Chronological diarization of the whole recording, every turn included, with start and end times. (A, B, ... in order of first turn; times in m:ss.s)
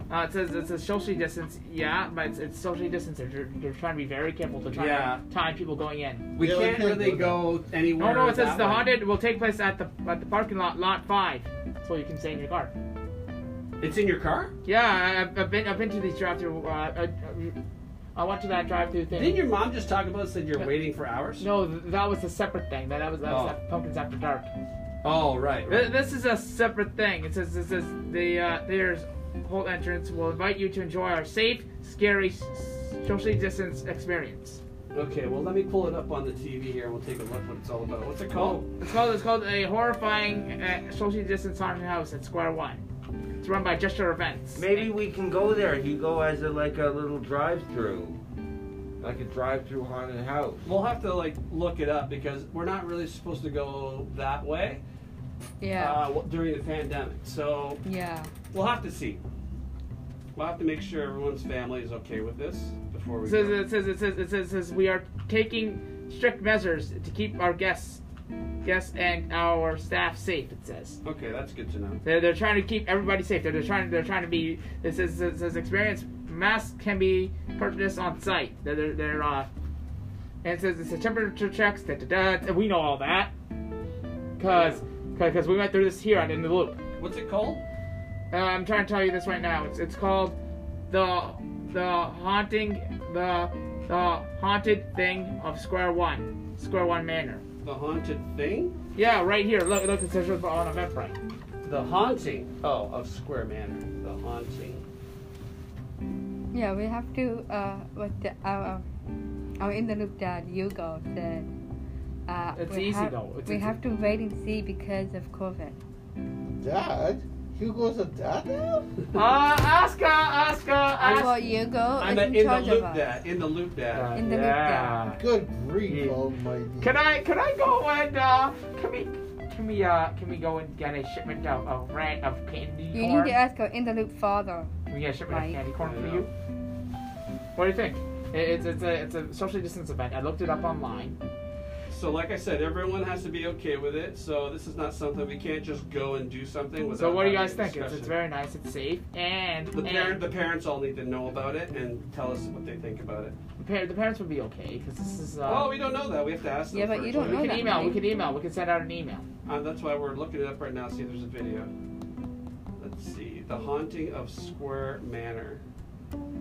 0:00.1-0:06.3 A
0:04.7-0:05.2 B
0:06.4-0:08.9 B
0:06.4-0:07.5 C
0:08.0-0:12.7 A
0:13.8-0:14.5 B
0:14.6-0:17.6 A
0:18.2-0:19.4 A
0:19.1-0:21.4 B
0:21.4-0:24.5 A
0:23.2-0:23.6 B
0:25.0-0:25.9 B
0:25.7-0:34.6 A
0:34.9-0:38.6 B
0:38.3-0:42.8 A
0:43.4-0:44.9 A
0:44.6-0:48.2 D
0:49.0-0:50.6 D
0:50.6-0:54.8 B
0:55.6-0:56.0 E
0:55.8-0:57.8 B
0:57.8-0:58.3 E
0:58.5-0:59.2 B
1:00.4-1:03.6 B
1:03.2-1:08.0 A
1:08.6-1:11.0 A
1:11.0-1:12.0 B
1:12.0-1:19.5 A
1:20.4-1:23.3 A
1:24.4-1:26.8 A
1:24.4-1:24.8 B
1:27.0-1:27.6 B
1:28.3-1:30.4 A
1:30.9-1:37.4 A
1:37.6-1:38.8 B
1:39.0-1:41.2 A
1:41.6-1:44.8 B
1:46.5-1:48.8 E
1:49.6-1:51.5 E
1:52.3-1:55.8 E
1:52.6-1:53.8 A
1:56.6-1:58.9 C
1:59.1-2:01.5 A
2:01.0-2:03.2 E
2:02.0-2:04.2 B
2:03.9-2:05.2 A
2:04.1-2:05.0 E
2:05.2-2:07.0 C
2:05.9-2:06.2 A
2:06.8-2:13.4 A
2:12.9-2:14.7 E
2:14.9-2:16.3 A
2:15.3-2:15.6 E
2:15.8-2:16.3 B
2:17.6-2:21.2 A
2:21.9-2:28.2 B
2:27.0-2:30.3 A
2:29.7-2:33.4 B
2:33.6-2:35.8 A
2:35.4-2:37.8 B
2:36.7-2:38.0 E
2:37.1-2:39.2 A
2:39.5-2:41.7 B
2:42.8-2:45.6 B